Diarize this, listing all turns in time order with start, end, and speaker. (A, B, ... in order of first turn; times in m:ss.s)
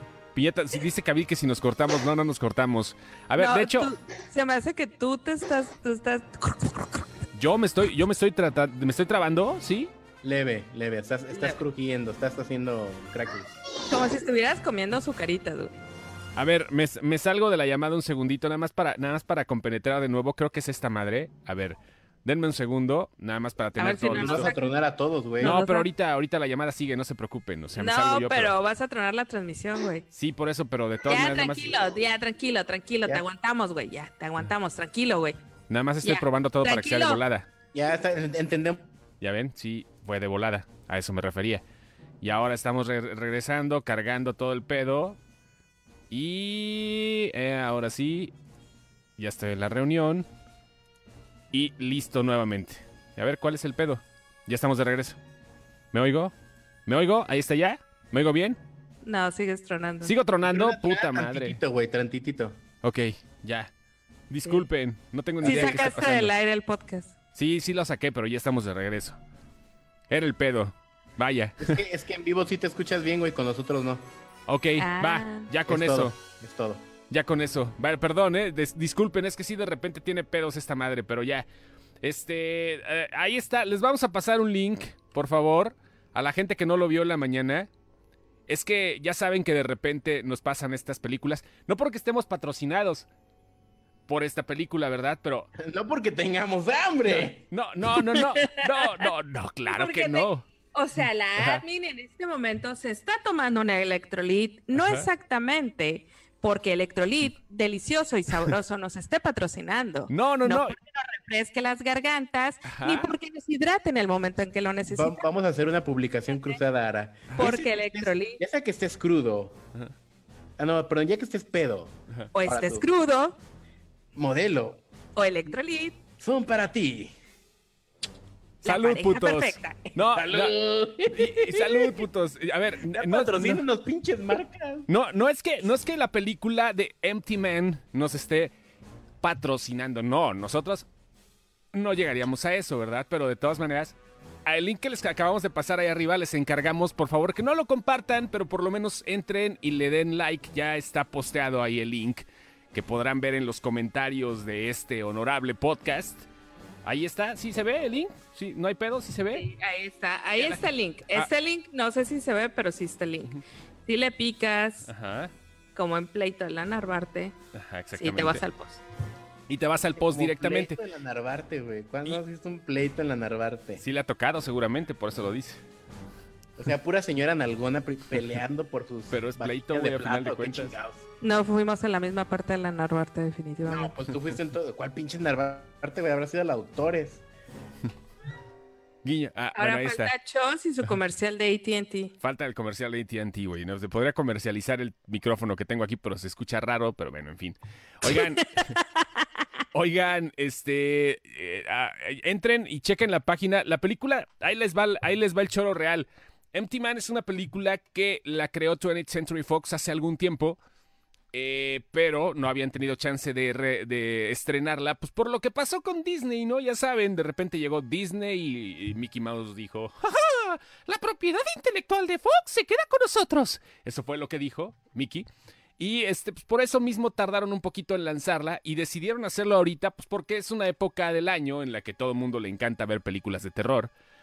0:00.3-0:03.9 A
0:03.4-0:07.2 B
0:07.3-0:09.9 A
0:10.2-0:13.5 C
0:11.3-0:11.6 B
0:13.8-0:15.7 B
0:16.4-0:24.5 A
0:23.8-0:24.7 B
0:24.1-0:25.6 C
0:25.4-0:25.9 B
0:25.4-0:28.5 A
0:27.8-0:30.0 B
0:30.1-0:31.8 A
0:31.1-0:35.4 B
0:35.7-0:37.5 A
0:36.0-0:37.2 B
0:37.7-0:38.9 C
0:39.2-0:41.6 A
0:42.2-0:45.2 A
0:46.1-0:48.3 A
0:49.2-0:50.3 A
0:51.5-0:55.2 A
0:55.9-0:56.3 A
0:56.8-0:58.6 A
0:59.0-1:00.1 B
1:00.0-1:01.6 A
1:00.5-1:02.6 C
1:02.8-1:03.7 A
1:04.3-1:06.3 A
1:05.4-1:05.9 C
1:05.4-1:07.1 B
1:07.3-1:09.2 A
1:10.1-1:11.8 A
1:11.6-1:14.1 C
1:14.5-1:16.2 A
1:14.8-1:15.5 B
1:15.7-1:16.8 C
1:17.1-1:21.4 A
1:22.0-1:27.7 A
1:28.5-1:33.1 A
1:34.1-1:35.5 A
1:35.6-1:37.4 C
1:37.1-1:40.5 A
1:39.7-1:55.2 B
1:41.4-1:41.6 A
1:44.7-1:45.1 A
1:50.1-1:50.8 A
1:52.6-1:53.1 A
1:54.9-1:59.6 C
1:57.4-1:58.4 B
2:00.6-2:02.9 C
2:02.3-2:03.4 B
2:04.1-2:04.8 C
2:05.2-2:06.0 B
2:06.2-2:07.1 C
2:08.6-2:13.6 A
2:08.6-2:09.9 B
2:10.1-2:12.0 C
2:12.9-2:14.9 C
2:14.9-2:18.5 A
2:19.2-2:20.9 A
2:21.7-2:36.2 A
2:36.8-2:39.5 A
2:39.3-2:43.3 B
2:40.4-2:41.3 A
2:43.8-2:44.9 B
2:44.9-2:45.3 A
2:45.7-2:47.4 B
2:47.5-2:48.4 A
2:48.0-2:48.8 B
2:49.5-2:50.8 A
2:50.0-2:53.8 C
2:53.8-2:55.6 A
2:56.6-3:01.0 C
2:59.1-3:00.8 A
3:01.2-3:03.9 B
3:03.6-3:07.2 C
3:09.0-3:10.1 A
3:09.5-3:12.1 B
3:12.2-3:18.8 A
3:18.1-3:18.8 B
3:19.7-3:30.6 A
3:31.3-3:45.3 A
3:45.8-3:53.9 A